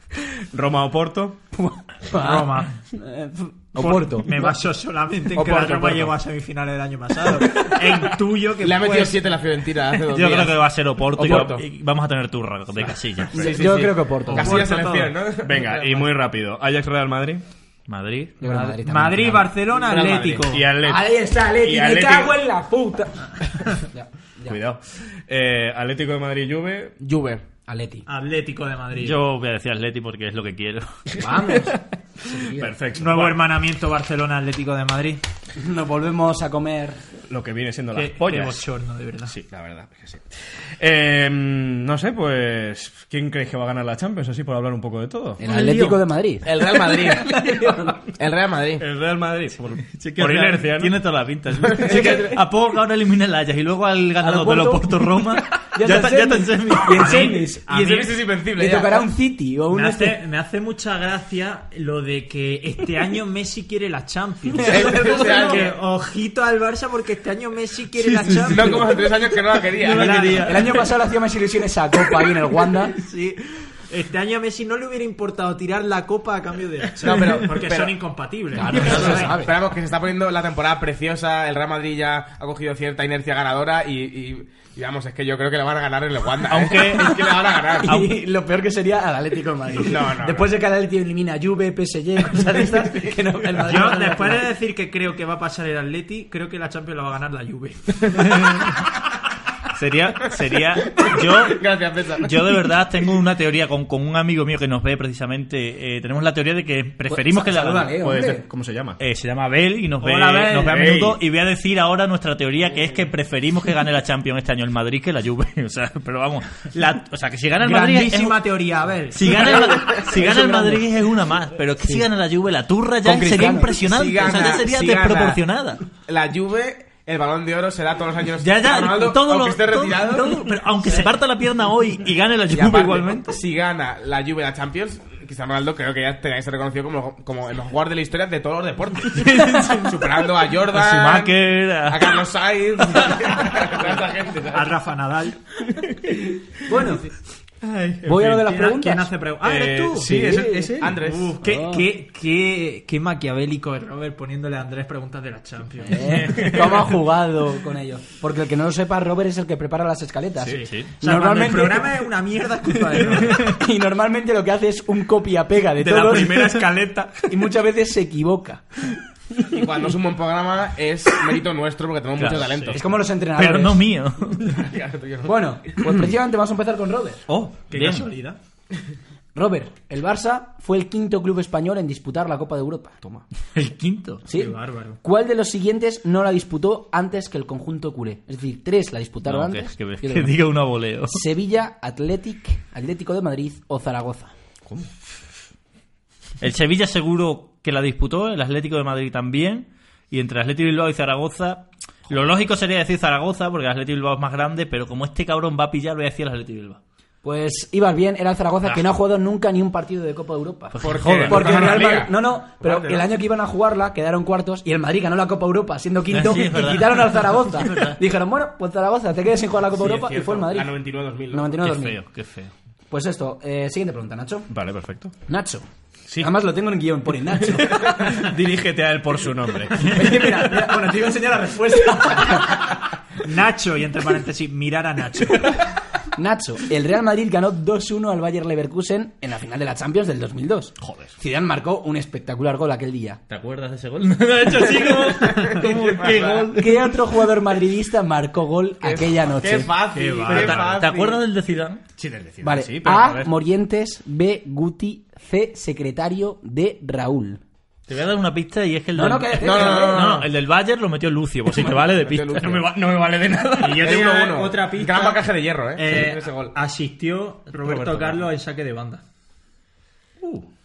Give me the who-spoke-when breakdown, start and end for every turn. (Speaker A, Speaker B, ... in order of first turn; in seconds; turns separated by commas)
Speaker A: 0.2-1.4, Speaker B: 1.5-4.6, Speaker C: 2.2-2.8, Speaker C: 3.8-9.3, Speaker A: 5.4-6.1, Speaker D: 8.6-11.6, Speaker E: 10.1-13.5, Speaker D: 13.3-16.1, Speaker B: 13.3-14.7, Speaker C: 14.3-15.2, Speaker A: 15.4-17.4, Speaker E: 17.9-18.4, Speaker B: 18.4-19.5, Speaker C: 18.4-20.7, Speaker D: 19.7-20.5, Speaker A: 20.0-22.3, Speaker B: 20.8-24.6, Speaker A: 24.5-27.0, Speaker D: 27.0-27.4, Speaker B: 27.7-28.1, Speaker C: 28.1-29.2, Speaker E: 29.0-30.9, Speaker A: 31.1-31.8, Speaker B: 31.2-32.7, Speaker A: 32.3-33.5, Speaker C: 33.0-35.2, Speaker B: 35.6-37.0, Speaker A: 37.3-38.6, Speaker C: 37.9-39.3, Speaker A: 39.2-45.4, Speaker B: 45.4-48.0, Speaker E: 45.5-46.0, Speaker D: 46.4-48.8, Speaker A: 48.8-51.0, Speaker E: 49.9-57.1, Speaker D: 51.6-52.4, Speaker B: 54.2-57.8, Speaker C: 56.9-58.1, Speaker D: 57.7-59.0, Speaker B: 58.6-60.2, Speaker C: 59.7-69.1, Speaker B: 64.5-65.7, Speaker D: 64.6-65.8, Speaker E: 68.0-68.7, Speaker D: 68.5-70.4, Speaker E: 69.8-70.6, Speaker C: 69.8-70.7, Speaker B: 70.3-73.0, Speaker C: 72.9-79.5, Speaker D: 77.0-78.0, Speaker B: 78.5-79.5, Speaker D: 78.7-88.0, Speaker E: 86.5-88.1, Speaker B: 87.8-94.5, Speaker D: 89.8-90.5, Speaker C: 93.6-98.7, Speaker E: 99.7-101.6, Speaker D: 100.8-102.6, Speaker E: 102.2-107.9, Speaker B: 107.1-108.5, Speaker A: 107.9-109.0, Speaker E: 109.0-118.4, Speaker C: 110.0-111.0, Speaker A: 110.6-111.2, Speaker C: 117.6-119.9, Speaker E: 119.1-125.8, Speaker B: 120.1-120.9, Speaker B: 123.0-123.7, Speaker D: 123.7-125.4, Speaker D: 126.0-131.1, Speaker E: 128.4-133.4, Speaker D: 132.5-144.7, Speaker E: 139.1-139.9, Speaker E: 140.7-142.2, Speaker C: 144.5-145.4, Speaker B: 146.7-147.1, Speaker C: 147.6-156.8, Speaker B: 148.0-149.1, Speaker A: 149.4-151.0, Speaker D: 150.0-151.4, Speaker B: 150.2-150.7, Speaker B: 151.4-151.9, Speaker B: 155.8-162.1, Speaker C: 160.5-163.5, Speaker E: 160.6-160.9, Speaker B: 163.2-169.0, Speaker A: 165.8-167.3, Speaker D: 169.5-173.0, Speaker E: 172.2-172.6, Speaker B: 172.7-173.9, Speaker E: 173.4-174.6, Speaker D: 174.4-175.4, Speaker B: 175.2-177.2, Speaker A: 177.3-177.5, Speaker C: 177.7-178.4, Speaker E: 177.7-178.1, Speaker B: 179.3-183.0, Speaker E: 183.6-184.2, Speaker B: 184.3-190.4, Speaker C: 184.3-185.0, Speaker E: 189.2-191.2, Speaker B: 191.1-194.3, Speaker E: 196.4-206.8, Speaker B: 207.2-220.7, Speaker E: 210.7-211.8, Speaker D: 210.8-213.1, Speaker E: 216.1-218.0, Speaker D: 219.8-221.6, Speaker B: 221.3-222.0, Speaker E: 221.6-222.5, Speaker B: 222.9-224.5, Speaker A: 224.5-225.2, Speaker B: 225.3-225.7, Speaker B: 226.2-228.2, Speaker A: 227.5-230.3, Speaker B: 229.8-232.8, Speaker C: 233.2-235.6, Speaker B: 236.2-243.2, Speaker A: 240.8-241.1, Speaker E: 243.3-246.9, Speaker D: 245.3-246.5, Speaker C: 245.4-246.0, Speaker B: 246.5-249.7, Speaker D: 248.8-251.2, Speaker C: 249.9-250.7, Speaker E: 250.3-251.8, Speaker A: 252.0-253.3, Speaker B: 252.4-257.4, Speaker E: 257.9-262.6, Speaker B: 258.9-260.0, Speaker D: 259.4-260.3, Speaker D: 261.8-262.7, Speaker A: 262.4-264.0, Speaker C: 263.6-265.2, Speaker D: 263.8-266.6, Speaker C: 265.8-269.0, Speaker A: 267.6-268.2, Speaker A: 270.2-270.5